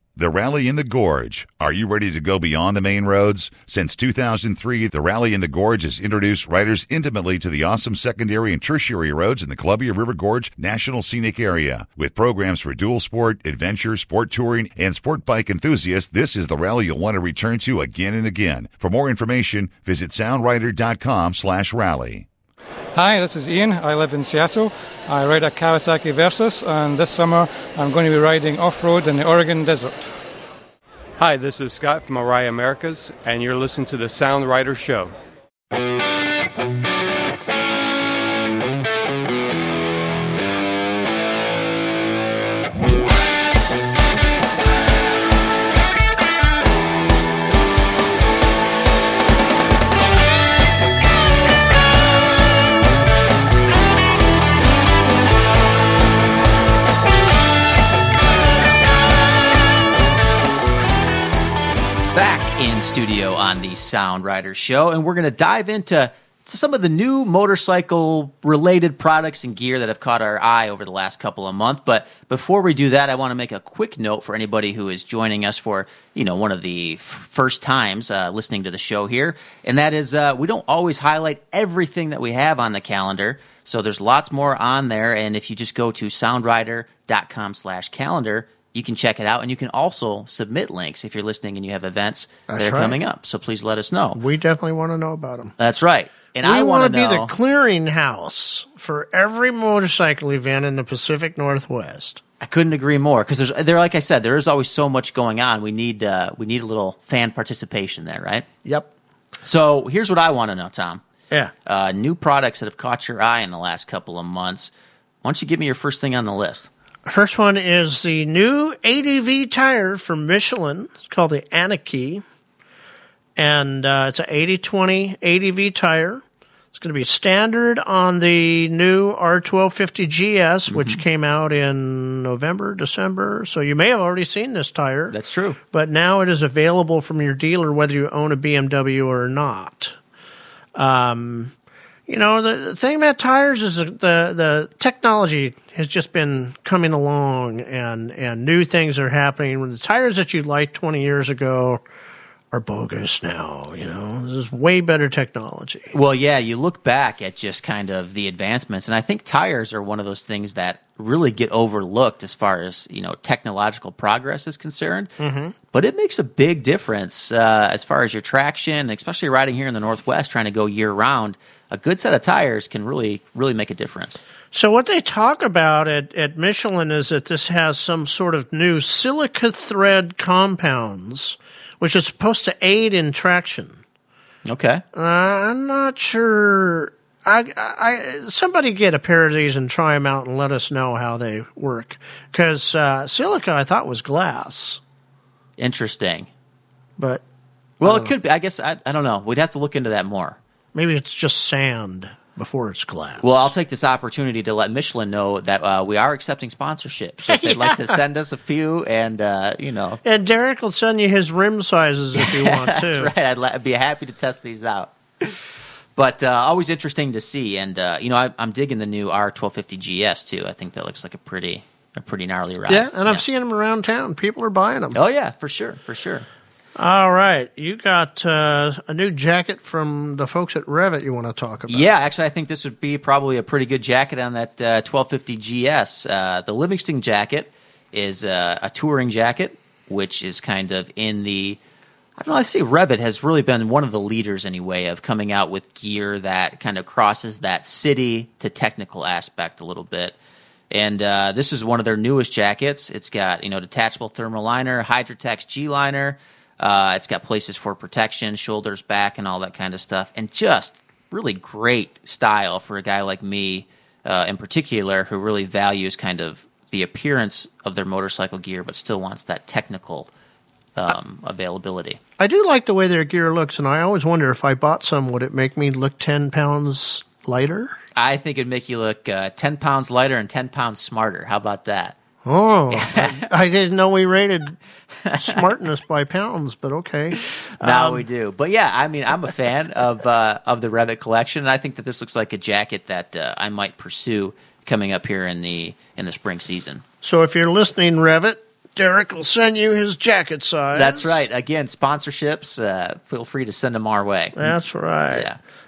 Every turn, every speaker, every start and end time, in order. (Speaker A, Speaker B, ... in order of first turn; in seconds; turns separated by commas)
Speaker A: 0.2-22.3, Speaker B: 22.9-30.1, Speaker C: 31.2-35.2, Speaker D: 62.1-94.2, Speaker E: 92.5-93.0, Speaker E: 94.2-95.5, Speaker D: 95.6-97.3, Speaker E: 96.4-102.2, Speaker D: 102.4-108.5, Speaker D: 109.5-111.0, Speaker D: 111.7-114.7, Speaker D: 115.2-116.7, Speaker E: 117.1-122.2, Speaker E: 123.4-126.2, Speaker E: 126.7-135.2, Speaker D: 130.7-131.0, Speaker D: 135.1-135.6, Speaker E: 135.7-139.9, Speaker E: 140.8-141.5, Speaker E: 142.1-151.8, Speaker E: 152.5-155.9, Speaker D: 155.9-165.1, Speaker E: 165.2-165.5, Speaker D: 165.7-174.2, Speaker E: 174.5-183.8, Speaker D: 184.4-184.8, Speaker E: 184.9-194.8, Speaker D: 195.6-196.3, Speaker E: 197.0-197.2, Speaker D: 197.8-200.4, Speaker E: 197.8-198.1, Speaker E: 200.8-203.5, Speaker D: 203.2-210.0, Speaker E: 207.3-208.0, Speaker E: 210.0-213.1, Speaker D: 212.2-223.2, Speaker E: 222.7-225.0, Speaker D: 224.9-226.3, Speaker E: 226.8-231.9, Speaker D: 231.7-241.6, Speaker D: 242.2-250.2, Speaker D: 250.7-270.1, Speaker D: 270.8-272.0, Speaker E: 272.2-277.8, Speaker D: 278.0-282.0, Speaker E: 282.3-284.6, Speaker D: 282.7-283.3, Speaker D: 285.1-285.5, Speaker E: 285.2-288.1, Speaker D: 287.2-296.8, Speaker E: 297.0-301.2, Speaker D: 300.7-304.5, Speaker E: 304.4-305.3, Speaker D: 305.1-305.4